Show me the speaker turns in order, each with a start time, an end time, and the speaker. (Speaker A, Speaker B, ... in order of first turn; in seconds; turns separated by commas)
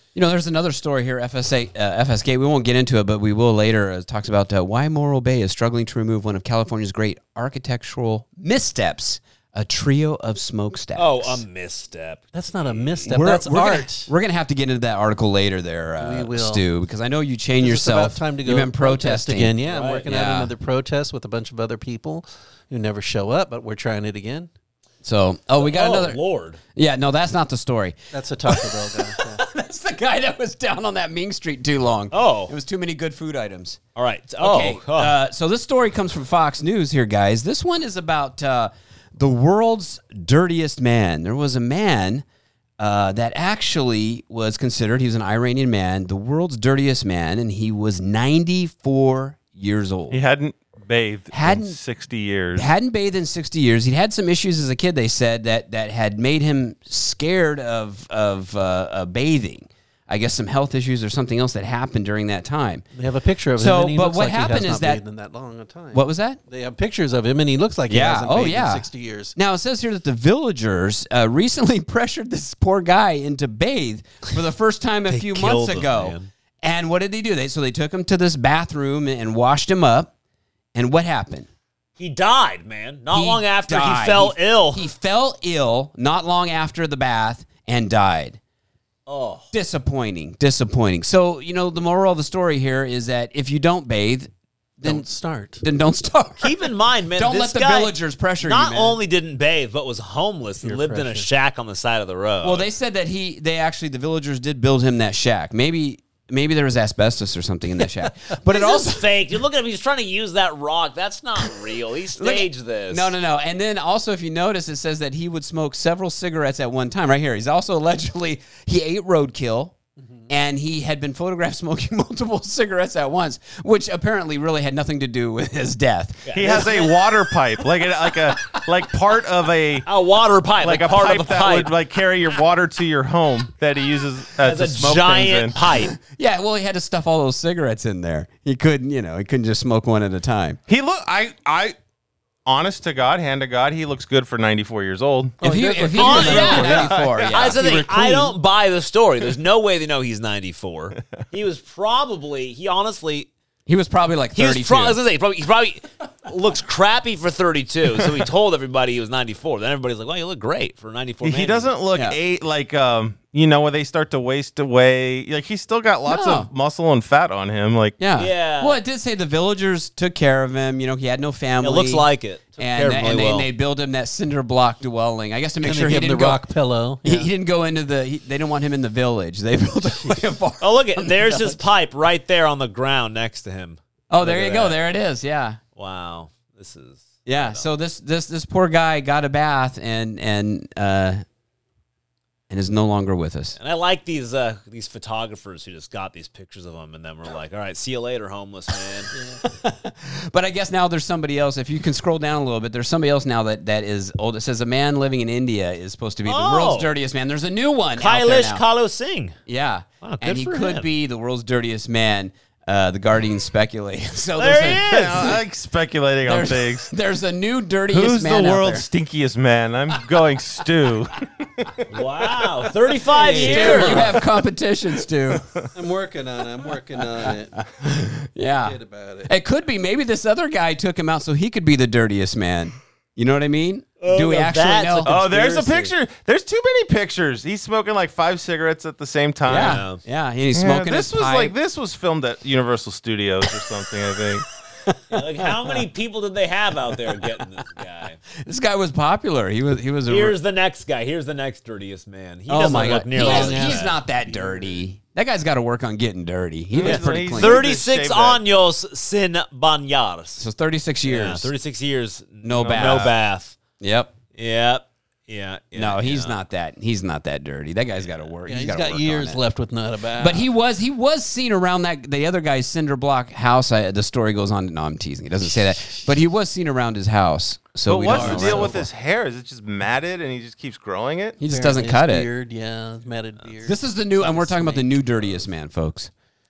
Speaker A: 0.1-11.4, Speaker B: 10.9-13.0, Speaker C: 12.3-14.1, Speaker A: 13.1-20.5, Speaker C: 16.0-16.6, Speaker C: 17.6-24.5, Speaker B: 19.7-20.1, Speaker A: 25.0-26.2, Speaker B: 25.6-26.6, Speaker A: 26.7-33.8, Speaker C: 28.1-29.4, Speaker B: 32.1-32.5, Speaker B: 33.9-35.1, Speaker A: 34.4-42.2, Speaker A: 42.8-50.2, Speaker D: 50.1-52.7, Speaker A: 51.3-51.8, Speaker A: 52.5-62.8, Speaker C: 62.9-69.3, Speaker A: 63.6-65.0, Speaker A: 65.9-66.4, Speaker A: 67.9-80.1, Speaker B: 75.1-76.3, Speaker A: 80.7-81.5, Speaker B: 82.0-84.8, Speaker A: 83.1-88.4, Speaker B: 89.1-89.5, Speaker A: 89.5-95.0, Speaker C: 94.8-95.6, Speaker A: 95.6-99.0, Speaker B: 96.4-102.7, Speaker C: 100.6-101.3, Speaker A: 102.4-109.1, Speaker B: 108.5-113.1, Speaker A: 112.2-119.8, Speaker A: 120.3-126.9, Speaker B: 126.2-126.9, Speaker D: 126.3-129.9, Speaker A: 128.2-128.6, Speaker B: 129.8-131.7, Speaker D: 130.6-135.6, Speaker B: 134.4-135.9, Speaker A: 135.8-140.6, Speaker D: 140.7-141.8, Speaker D: 142.4-145.3, Speaker C: 145.4-147.0, Speaker A: 145.4-147.7, Speaker B: 145.9-153.3, Speaker D: 146.3-147.4, Speaker C: 147.5-148.3, Speaker A: 153.7-155.0, Speaker B: 154.3-161.7, Speaker D: 161.2-168.0, Speaker A: 161.9-162.2, Speaker A: 166.1-166.5, Speaker A: 168.0-176.4, Speaker B: 168.2-168.8, Speaker B: 171.6-173.5, Speaker C: 175.6-177.3, Speaker A: 177.0-181.6, Speaker B: 180.6-184.8, Speaker A: 184.1-185.6, Speaker B: 185.8-187.7, Speaker A: 187.2-191.2, Speaker A: 192.5-193.6, Speaker B: 193.6-199.1, Speaker A: 199.4-208.6, Speaker B: 206.2-206.9, Speaker B: 208.0-209.4, Speaker A: 209.4-215.4, Speaker B: 210.0-210.9, Speaker B: 214.4-215.4, Speaker D: 214.8-216.9, Speaker A: 216.2-218.9, Speaker D: 217.9-222.0, Speaker B: 221.9-224.1, Speaker C: 223.1-224.2, Speaker A: 223.4-225.6, Speaker D: 225.4-225.7, Speaker C: 225.7-227.7, Speaker A: 227.0-235.1, Speaker C: 228.6-229.3, Speaker B: 234.0-235.9, Speaker D: 235.0-239.8, Speaker A: 239.4-241.5, Speaker B: 239.5-240.0, Speaker D: 240.5-244.4, Speaker A: 244.9-245.8, Speaker B: 245.1-248.2, Speaker A: 248.3-250.4, Speaker B: 250.1-253.9, Speaker A: 252.5-257.6, Speaker C: 253.1-254.8, Speaker D: 256.7-258.4, Speaker B: 256.8-260.5, Speaker A: 260.4-261.5, Speaker B: 261.0-263.6, Speaker A: 262.4-263.1, Speaker D: 262.6-263.1, Speaker A: 263.8-264.1, Speaker B: 264.3-266.4, Speaker A: 265.7-269.4, Speaker C: 268.4-270.5, Speaker A: 270.2-278.8, Speaker D: 277.9-281.4, Speaker C: 278.0-278.9, Speaker A: 281.4-282.3, Speaker C: 281.5-285.4, Speaker A: 283.6-286.1